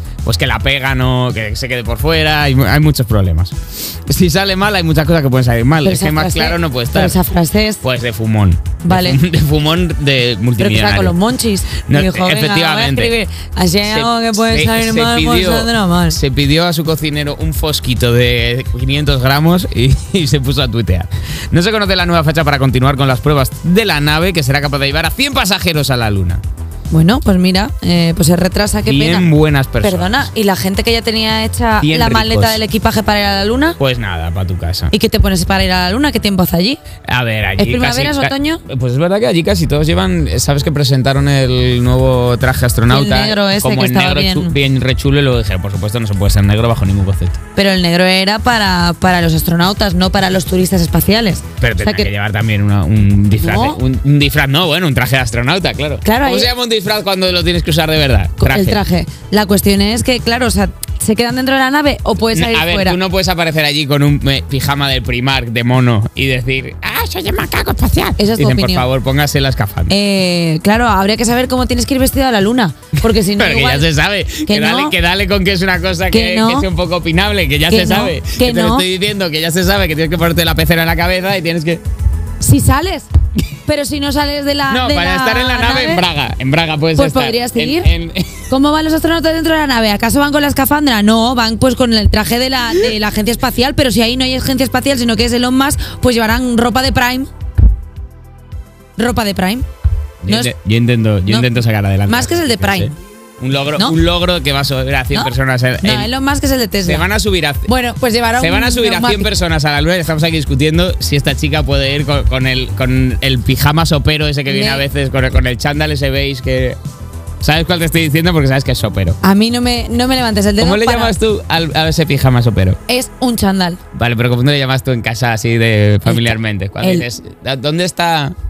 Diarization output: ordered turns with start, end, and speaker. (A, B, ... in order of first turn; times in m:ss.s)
0:00.2-0:07.2 A
0:05.8-0:07.8 B
0:07.8-0:11.2 A
0:08.8-0:09.2 B
0:10.6-0:16.2 B
0:11.8-0:13.1 A
0:13.8-0:26.4 A
0:26.9-0:29.3 B
0:28.9-0:30.3 A
0:29.8-0:33.8 B
0:31.8-0:32.6 A
0:33.8-0:34.9 A
0:34.9-0:36.8 B
0:37.1-0:47.4 A
0:37.6-0:38.6 B
0:42.9-0:44.5 B
0:47.6-0:52.1 B
0:51.6-0:58.8 A
0:53.4-0:53.8 B
0:56.0-0:56.5 B
0:58.4-1:03.0 B
1:02.3-1:10.0 A
1:08.2-1:08.9 B
1:09.9-1:13.9 B
1:13.4-1:21.8 A
1:14.5-1:15.0 B
1:16.1-1:16.7 B
1:17.7-1:18.9 B
1:22.4-1:23.1 B
1:23.7-1:26.0 B
1:24.7-1:28.5 A
1:27.0-1:27.9 B
1:28.5-1:37.3 B
1:39.0-1:39.7 B
1:40.2-1:46.1 A
1:40.3-1:40.5 B
1:42.1-1:43.0 B
1:45.1-1:47.1 B
1:46.8-1:47.7 A
1:47.7-1:49.3 B
1:48.4-1:56.8 A
1:54.5-1:54.8 B
1:57.4-1:59.2 A
1:59.2-2:01.1 B
2:00.6-2:02.8 A
2:02.9-2:03.8 B
2:03.9-2:08.4 A
2:06.0-2:07.1 B